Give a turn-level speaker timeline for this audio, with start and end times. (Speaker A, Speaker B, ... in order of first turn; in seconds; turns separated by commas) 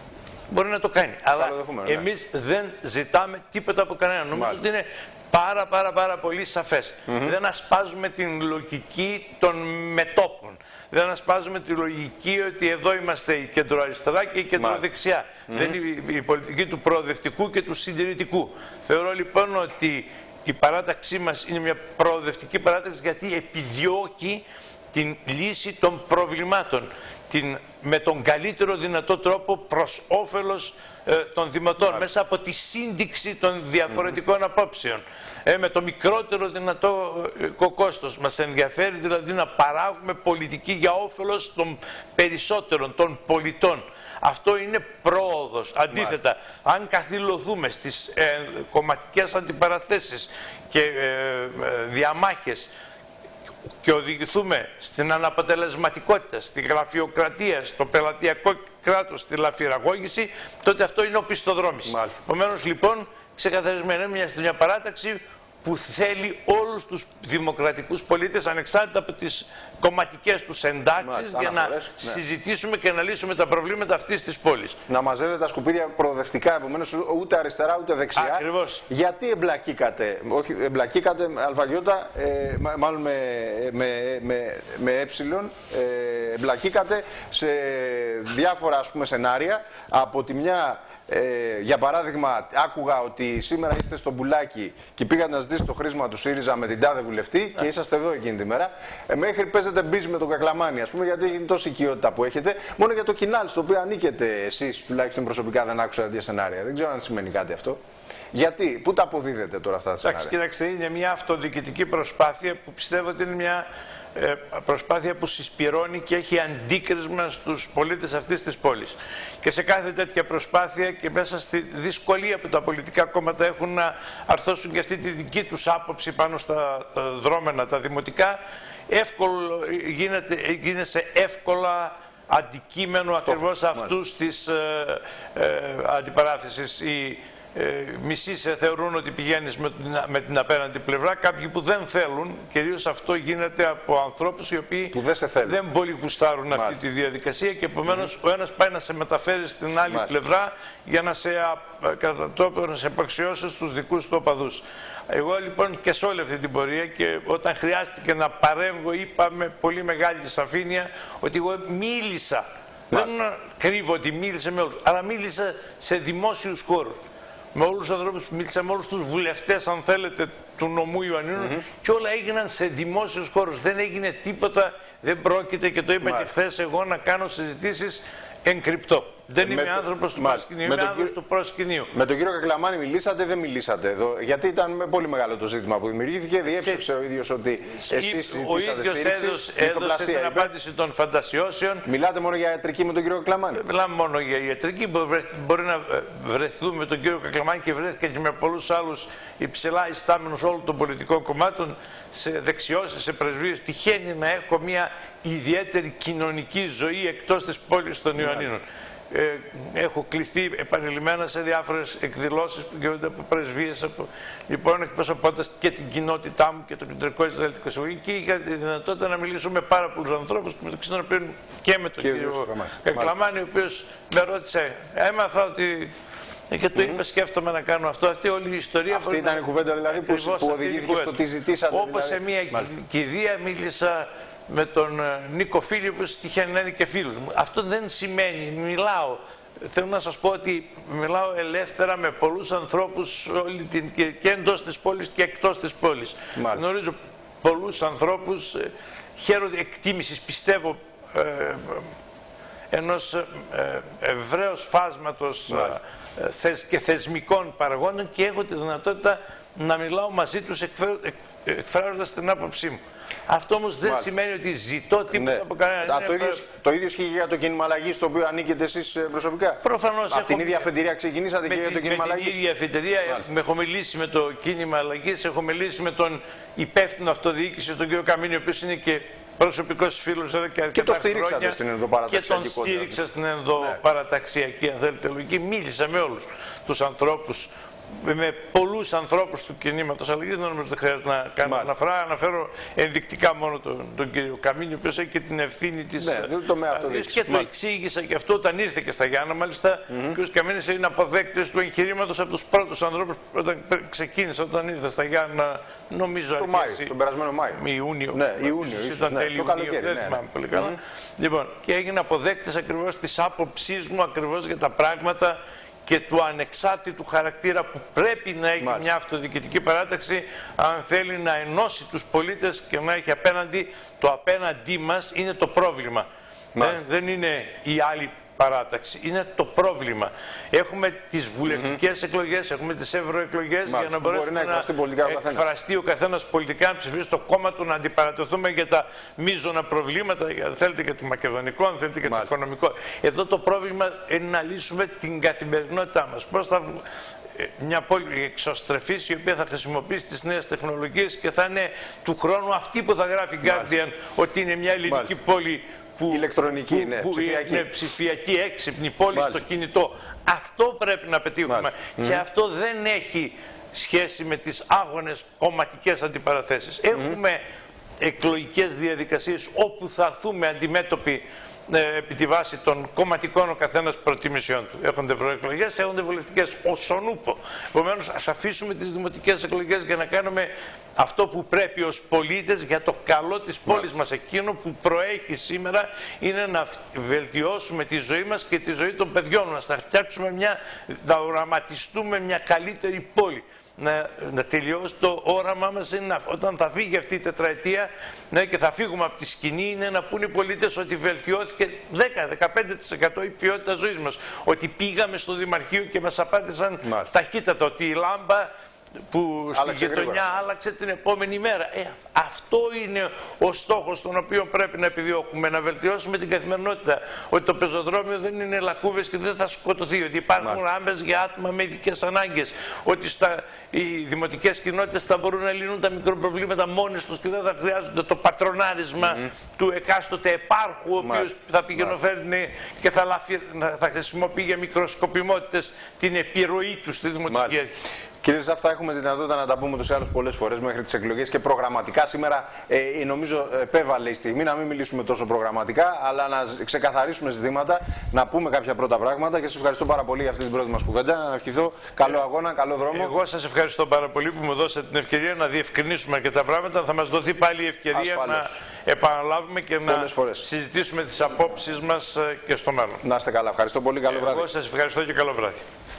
Speaker A: 0.5-52.7, Speaker B: 1.4-2.1, Speaker B: 4.3-4.6, Speaker B: 7.1-7.3, Speaker B: 14.6-14.8, Speaker B: 15.5-15.8, Speaker B: 45.9-46.2, Speaker A: 53.7-74.8, Speaker B: 61.9-62.1, Speaker B: 71.0-72.2, Speaker B: 74.9-107.8, Speaker A: 78.2-78.9, Speaker B: 108.3-110.3, Speaker A: 110.0-128.4, Speaker A: 128.9-167.0, Speaker B: 133.2-133.9, Speaker B: 144.9-145.6, Speaker B: 146.5-146.8, Speaker A: 167.5-181.9, Speaker B: 171.4-171.6, Speaker B: 176.0-176.3, Speaker B: 179.4-181.2, Speaker B: 181.9-190.5, Speaker A: 186.5-186.8, Speaker A: 187.8-191.9, Speaker B: 191.9-193.6, Speaker A: 193.5-225.9, Speaker B: 208.2-208.5, Speaker B: 222.0-223.1, Speaker A: 226.5-251.9, Speaker B: 228.9-232.7, Speaker B: 246.3-246.6, Speaker A: 252.7-266.4, Speaker B: 255.5-255.8, Speaker B: 265.1-272.4, Speaker A: 269.6-270.7, Speaker A: 271.4-306.9, Speaker B: 280.7-283.0, Speaker B: 291.4-291.7, Speaker B: 296.0-297.5, Speaker B: 299.9-300.2, Speaker B: 306.4-307.6, Speaker A: 307.6-326.1, Speaker B: 308.1-310.8, Speaker B: 318.6-318.9, Speaker B: 326.6-326.8, Speaker A: 326.6-346.8, Speaker B: 331.5-331.8, Speaker B: 333.7-335.5, Speaker B: 342.1-342.3, Speaker A: 347.4-367.4, Speaker B: 353.4-353.7, Speaker B: 354.9-355.1, Speaker B: 356.1-357.7, Speaker B: 359.1-359.4, Speaker B: 361.5-362.2, Speaker A: 368.0-408.5, Speaker B: 406.8-407.1, Speaker A: 409.1-437.8, Speaker B: 409.5-410.4, Speaker B: 429.0-429.3, Speaker B: 431.0-431.9, Speaker B: 437.3-437.6, Speaker B: 438.2-453.1, Speaker A: 452.9-463.0, Speaker B: 457.9-458.5, Speaker B: 459.9-460.4, Speaker B: 463.0-464.5, Speaker A: 464.1-465.7